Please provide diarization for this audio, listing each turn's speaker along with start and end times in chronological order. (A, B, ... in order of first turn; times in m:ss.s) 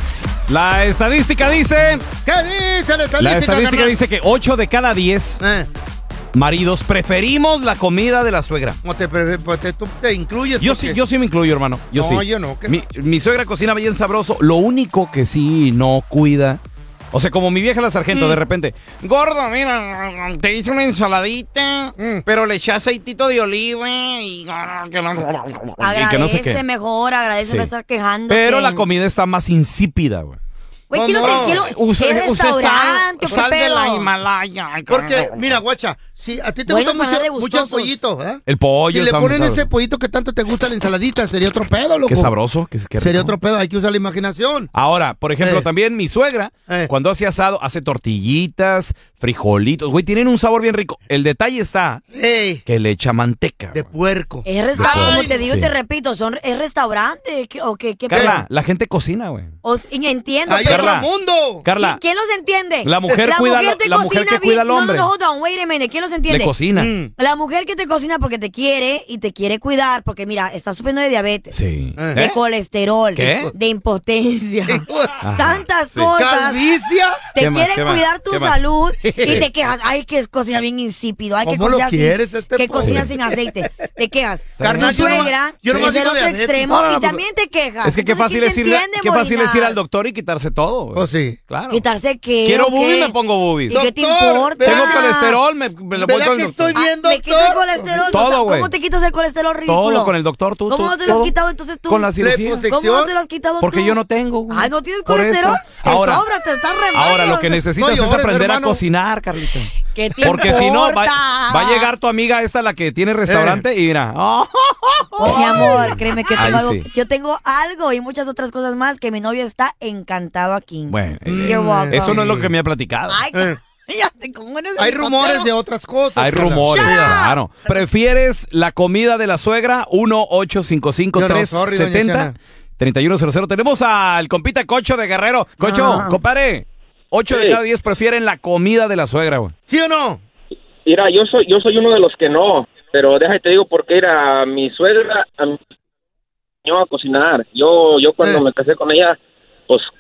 0:00.5-0:02.1 A
0:02.2-0:04.0 B
0:03.2-0:05.4 A
0:05.4-0:05.7 B
0:06.3-0:08.8 A
0:08.8-0:11.0 B
0:10.6-0:16.6 A
0:11.9-0:12.8 B
0:17.1-0:26.6 A
0:18.1-0:18.4 C
0:22.0-0:22.2 B
0:25.8-0:28.9 C
0:27.4-0:27.7 A
0:28.3-0:30.4 A
0:30.9-0:34.1 C
0:30.9-0:31.6 B
0:31.1-0:35.6 A
0:34.9-0:42.3 B
0:36.7-0:37.9 C
0:38.5-0:39.7 A
0:42.1-0:43.3 A
0:43.0-0:44.7 B
0:44.7-0:52.0 A
0:45.4-0:45.7 B
0:52.1-0:52.6 B
0:52.7-0:53.9 A
0:53.7-0:55.4 B
0:54.4-0:58.4 C
0:54.7-0:55.7 A
0:58.1-0:59.5 A
0:58.1-0:58.4 B
0:59.6-1:00.9 C
1:00.5-1:01.7 B
1:00.7-1:01.1 A
1:01.6-1:02.0 A
1:01.8-1:06.5 C
1:02.8-1:05.1 A
1:06.3-1:06.9 A
1:06.7-1:07.1 B
1:07.2-1:11.6 C
1:11.5-1:12.4 A
1:12.0-1:12.2 B
1:12.1-1:16.6 C
1:13.1-1:13.5 A
1:14.7-1:15.2 B
1:15.2-1:16.1 A
1:16.2-1:17.2 B
1:17.3-1:29.8 C
1:17.4-1:18.6 A
1:19.0-1:19.5 B
1:21.4-1:23.4 B
1:22.8-1:23.1 A
1:24.6-1:25.9 A
1:24.6-1:26.7 B
1:26.6-1:27.2 A
1:27.8-1:31.8 A
1:30.9-1:31.4 B
1:31.7-1:35.4 C
1:32.4-1:33.8 A
1:33.7-1:35.1 B
1:34.6-1:36.8 A
1:35.9-1:38.2 B
1:36.7-1:40.1 C
1:38.1-1:38.7 A
1:39.7-1:41.3 A
1:40.7-1:42.1 C
1:41.8-1:42.6 A
1:42.2-1:43.2 B
1:42.6-1:44.0 C
1:43.6-1:46.2 A
1:44.5-1:47.6 C
1:46.9-1:56.8 A
1:47.8-1:48.8 B
1:49.9-1:51.9 C
1:53.3-1:53.6 B
1:55.2-2:02.2 C
1:55.2-1:56.0 B
2:00.9-2:03.2 A
2:01.2-2:02.5 B
2:03.1-2:05.5 C
2:04.8-2:07.2 B
2:06.2-2:19.5 A
2:06.7-2:07.8 C
2:11.2-2:12.3 B
2:15.6-2:16.2 C
2:17.3-2:17.6 D
2:19.7-2:20.2 B
2:20.9-2:25.5 D
2:26.7-2:29.1 D